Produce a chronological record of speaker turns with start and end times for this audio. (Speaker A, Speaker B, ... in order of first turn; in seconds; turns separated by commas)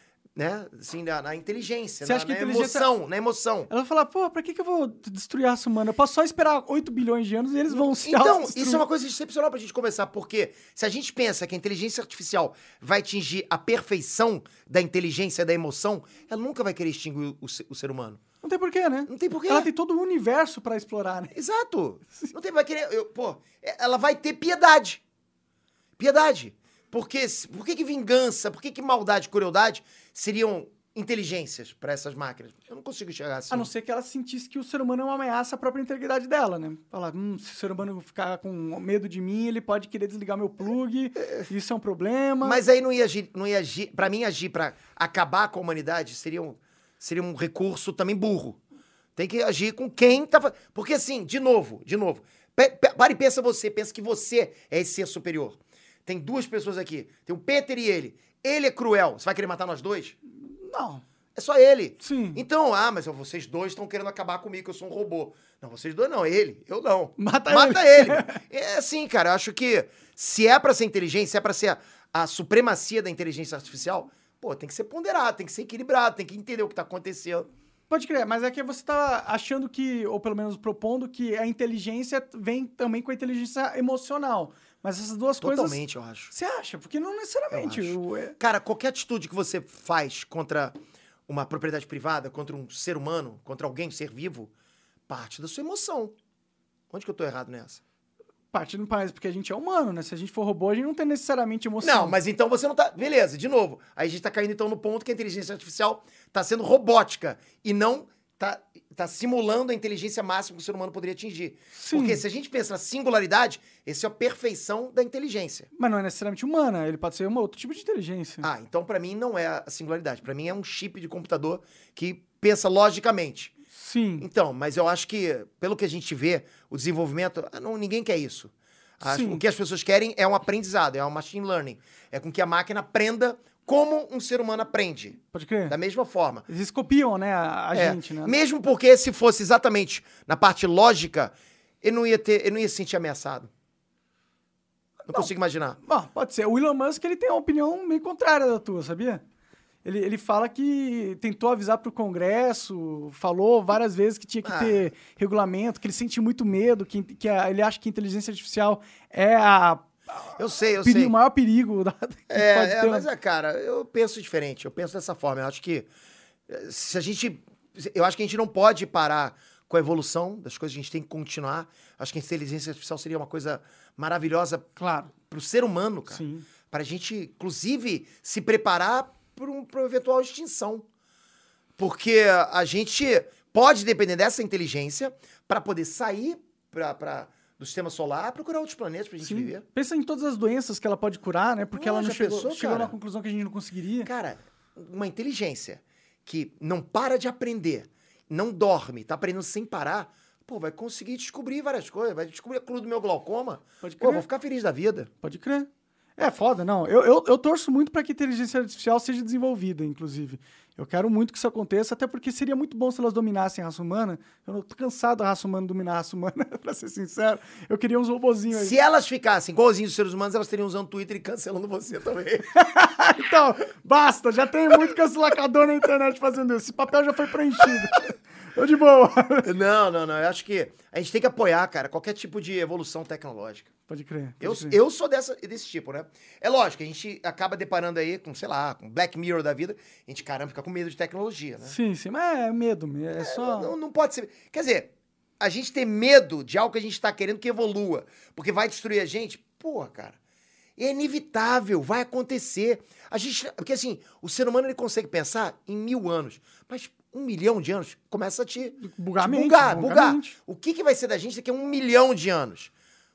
Speaker A: 0.4-3.7, Speaker B: 2.0-2.9, Speaker B: 3.7-8.8, Speaker A: 7.7-18.2, Speaker B: 18.4-21.3, Speaker A: 19.1-19.7, Speaker A: 21.3-25.0, Speaker A: 26.0-33.7, Speaker B: 33.5-42.6, Speaker A: 41.2-41.5, Speaker A: 42.4-48.6, Speaker A: 49.2-60.2, Speaker B: 60.4-61.0, Speaker A: 61.4-77.5, Speaker B: 62.0-62.4, Speaker B: 67.2-68.4, Speaker B: 77.9-85.8, Speaker A: 85.4-86.3, Speaker B: 86.3-88.4, Speaker A: 87.5-90.8, Speaker A: 91.3-94.5, Speaker A: 95.1-96.2, Speaker A: 96.9-97.8, Speaker B: 98.5-102.2, Speaker A: 101.8-115.7, Speaker B: 111.7-112.2, Speaker B: 115.8-118.5, Speaker A: 118.4-123.5, Speaker B: 123.7-124.3, Speaker A: 124.2-136.4, Speaker B: 129.0-129.4, Speaker B: 135.3-135.8, Speaker B: 136.5-138.4, Speaker A: 137.7-143.5, Speaker A: 145.1-145.8, Speaker B: 145.8-149.2, Speaker B: 149.8-163.1, Speaker A: 154.4-154.8, Speaker A: 160.3-161.1, Speaker A: 162.3-165.9, Speaker A: 166.5-180.8, Speaker B: 174.8-175.1, Speaker B: 176.1-176.5, Speaker A: 181.8-189.6, Speaker B: 189.2-194.1, Speaker A: 191.8-192.9, Speaker A: 194.0-205.1, Speaker B: 203.8-204.3, Speaker B: 205.2-218.8, Speaker A: 218.5-222.5, Speaker B: 222.5-229.5, Speaker A: 229.4-233.7, Speaker B: 233.9-234.8, Speaker A: 234.4-241.8, Speaker B: 241.7-243.7, Speaker A: 243.2-250.2, Speaker A: 250.8-262.7, Speaker B: 258.8-260.4